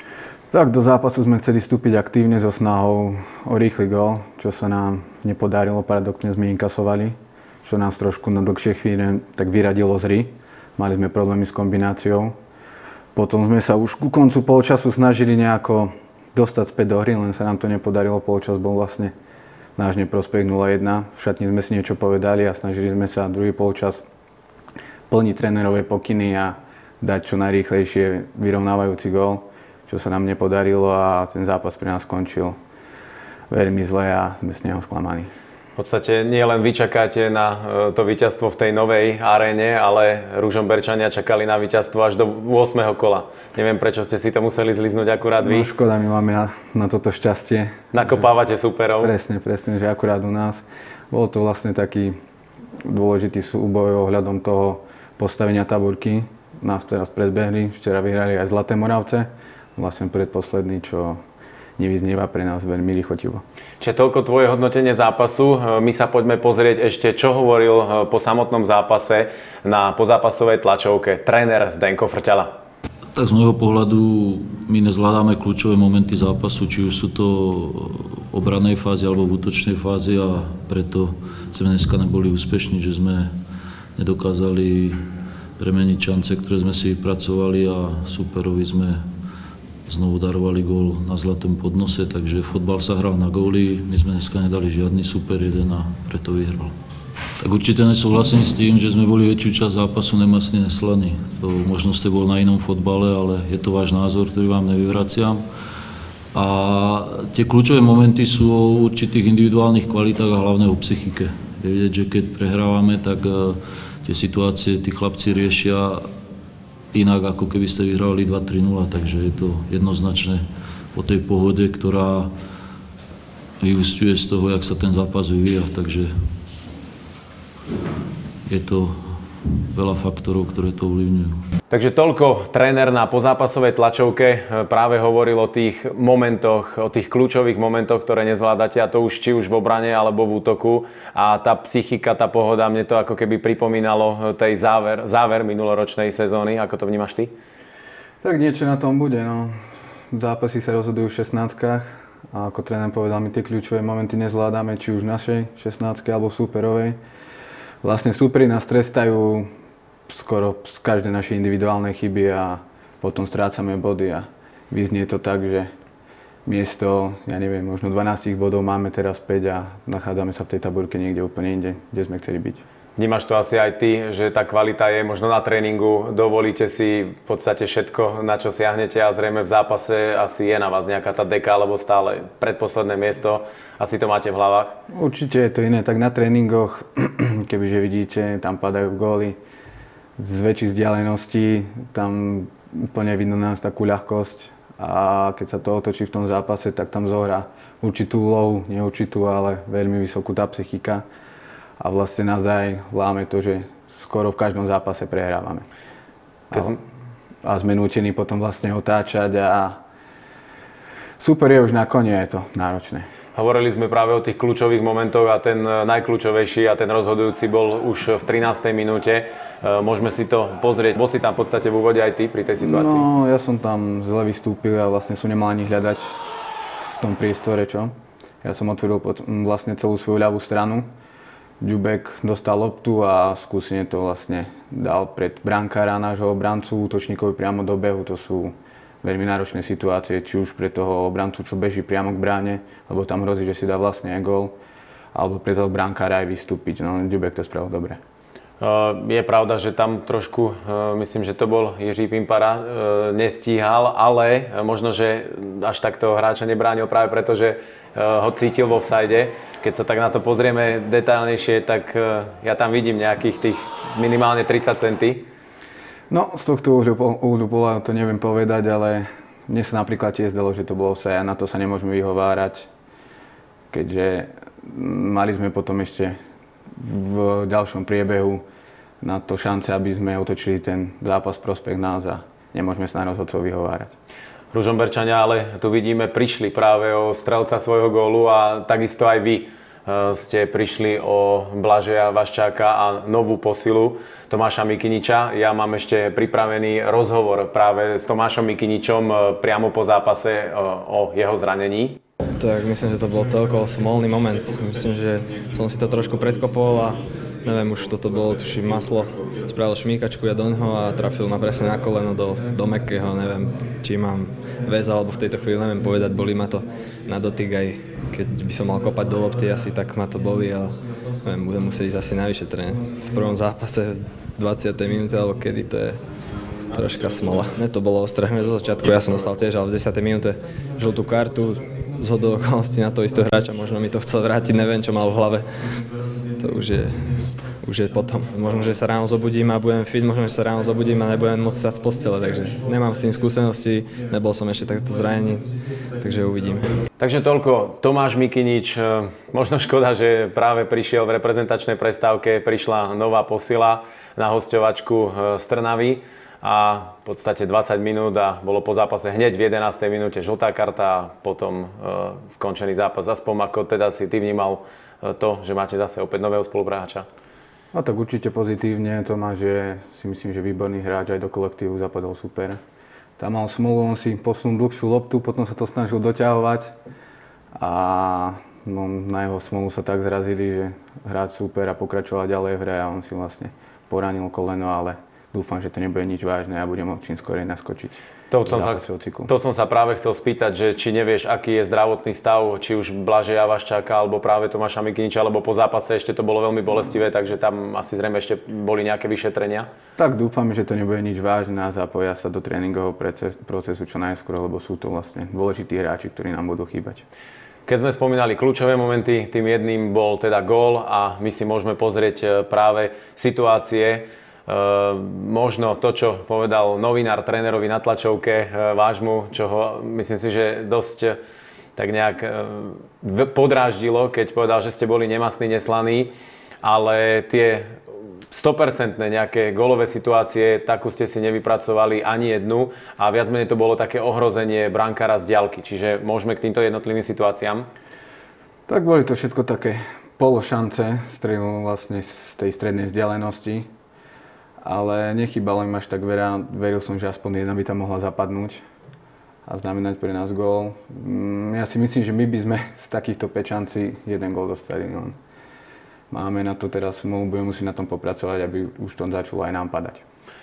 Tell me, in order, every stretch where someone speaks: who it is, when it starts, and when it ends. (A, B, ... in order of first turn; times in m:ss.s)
0:00.5-0:12.4 A
0:13.1-0:19.1 A
0:19.8-0:24.0 A
0:25.1-0:32.6 A
0:33.5-0:35.3 A
0:35.8-0:45.7 B
0:45.4-0:48.2 A
0:47.9-0:49.1 B
0:49.0-0:52.2 A
0:52.8-1:01.2 A
1:01.8-1:03.4 A
1:03.8-1:12.5 B
1:13.1-1:23.3 C
1:24.0-1:25.0 C
1:25.6-1:29.0 C
1:29.9-1:36.7 C
1:37.4-1:45.4 C
1:46.3-1:56.0 C
1:56.9-2:00.4 C
2:00.9-2:02.3 C
2:03.6-2:06.1 C
2:08.5-2:08.9 C
2:09.7-2:11.4 C
2:11.7-2:27.3 B
2:28.2-2:29.5 A
2:30.1-2:37.0 A
2:37.8-2:39.5 A
2:40.1-2:45.7 A
2:46.4-2:52.6 A
2:53.0-3:04.8 B
3:04.9-3:09.4 A
3:10.2-3:21.0 A
3:21.8-3:25.6 A
3:26.5-3:26.8 A
3:27.4-3:29.8 A
3:31.2-3:33.1 A
3:33.3-3:43.0 B
3:42.6-3:46.2 A
3:47.0-3:50.9 A
3:51.6-4:04.5 A
4:05.1-4:08.0 A
4:08.6-4:25.2 B
4:26.1-4:32.7 A
4:33.7-4:36.2 A
4:36.7-4:38.4 A
4:39.0-4:43.9 A
4:44.5-5:02.0 B
5:02.4-5:26.0 D
5:26.7-5:35.4 D
5:36.4-5:46.7 D
5:47.0-6:07.1 B
6:07.7-6:12.6 A
6:13.2-6:16.7 A
6:17.6-6:29.3 A
6:28.3-6:39.7 B
6:40.0-6:47.0 A
6:47.6-7:01.2 B
7:01.8-7:07.8 B
7:08.3-7:17.7 B
7:18.7-7:23.7 A
7:24.6-7:28.6 A
7:29.4-7:35.2 A
7:36.1-7:40.0 A